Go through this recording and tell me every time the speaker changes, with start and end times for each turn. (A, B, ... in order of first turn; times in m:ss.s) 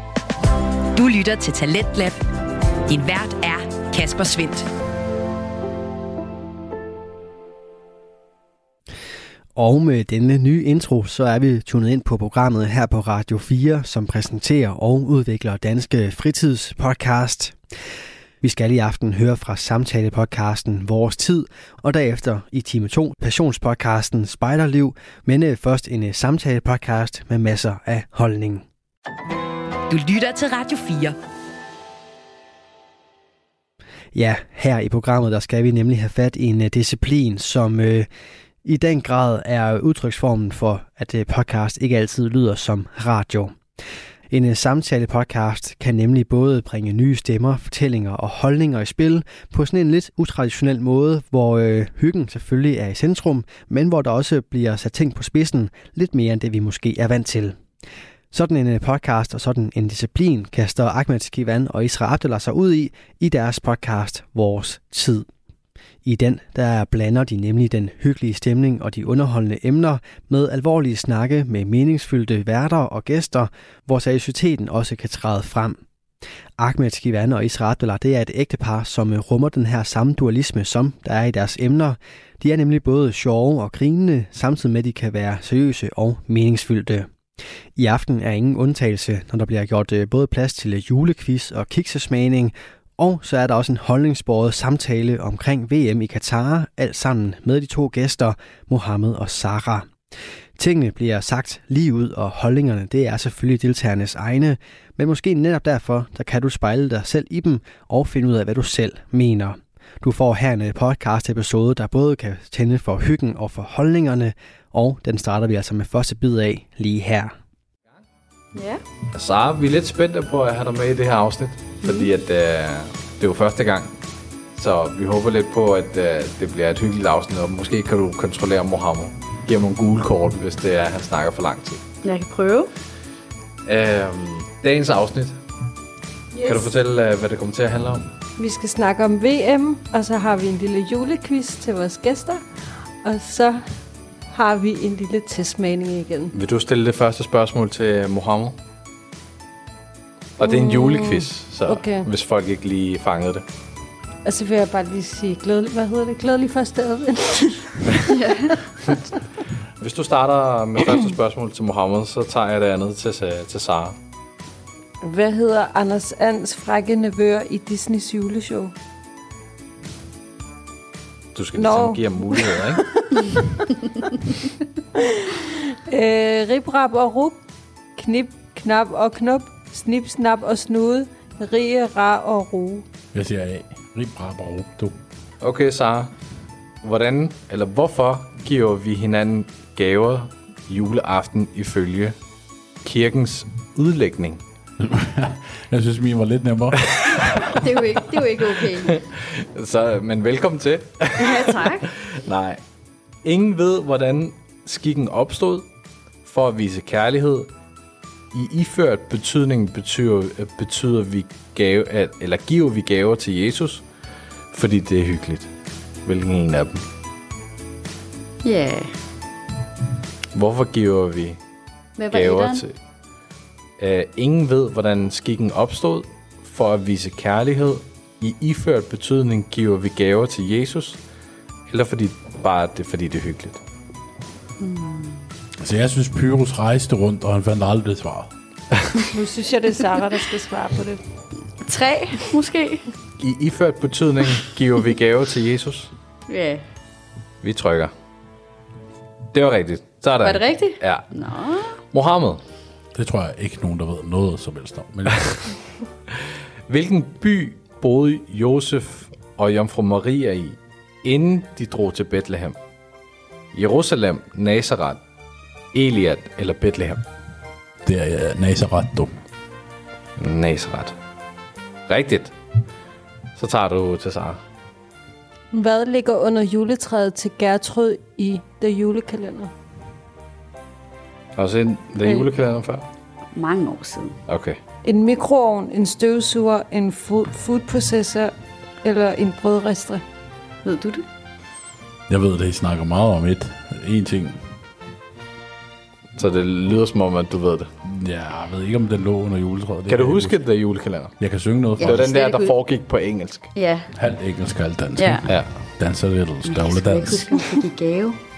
0:00.9-0:02.2 A
0:02.9-0:04.7 A
0:09.6-0:17.6 B
0:18.4-0:28.6 B
0:29.9-0:31.2 A
0:34.1-0:38.1 B
0:38.6-0:43.6 B
0:44.3-0:57.6 B
0:58.3-1:05.3 B
1:06.0-1:15.8 B
1:16.6-1:27.1 B
1:27.8-1:39.9 B
1:40.6-1:57.4 B
1:58.5-1:58.8 C
1:59.1-2:03.9 D
2:01.8-2:02.1 C
2:04.6-2:11.8 D
2:12.0-2:12.7 C
2:13.7-2:15.4 D
2:16.4-2:16.7 E
2:16.4-2:18.0 D
2:18.4-2:22.4 E
2:23.0-2:23.7 E
2:24.3-2:26.3 E
2:26.3-2:28.6 D
2:30.4-2:33.4 D
2:30.4-2:32.1 E
2:34.2-2:38.2 E
2:38.1-2:38.6 C
2:39.8-2:44.0 D
2:45.0-2:48.7 E
2:51.4-2:52.9 D
2:51.6-2:53.5 E
2:55.0-2:57.4 E
2:58.0-3:02.8 E
3:03.1-3:05.0 F
3:05.4-3:06.1 D
3:06.8-3:12.2 D
3:12.8-3:14.4 D
3:14.8-3:17.6 F
3:17.4-3:19.0 C
3:18.8-3:22.6 D
3:21.2-3:21.9 C
3:23.2-3:25.7 D
3:26.3-3:27.5 D
3:28.3-3:33.8 D
3:34.5-3:35.5 D
3:36.0-3:36.8 D
3:38.4-3:38.9 C
3:40.3-3:41.4 D
3:42.0-3:42.6 C
3:42.1-3:42.7 D
3:43.8-3:51.0 D
3:51.7-3:53.6 D
3:54.6-3:55.1 C
3:55.6-3:58.3 F
3:59.1-4:01.0 E
4:01.6-4:02.9 C
4:03.2-4:05.9 D
4:06.3-4:06.6 C
4:07.4-4:07.9 D
4:09.3-4:11.1 D
4:10.2-4:11.8 C
4:11.9-4:12.4 D
4:12.9-4:15.6 F
4:16.7-4:22.6 D
4:23.5-4:25.0 D
4:25.7-4:27.0 D
4:27.8-4:29.1 F
4:30.2-4:31.0 D
4:31.9-4:32.3 D
4:33.4-4:34.4 D
4:35.5-4:39.5 E
4:41.4-4:42.8 D
4:43.3-4:44.2 C
4:44.3-4:44.6 D
4:44.8-4:50.0 E
4:50.6-4:51.0 C
4:52.1-4:54.4 F
4:56.2-4:57.7 D
4:57.9-5:00.4 F
4:59.9-5:01.2 D
5:01.2-5:02.1 F
5:01.8-5:02.5 C
5:01.8-5:03.5 D
5:03.5-5:03.9 C
5:03.9-5:07.3 F
5:05.0-5:05.3 C
5:06.4-5:08.2 C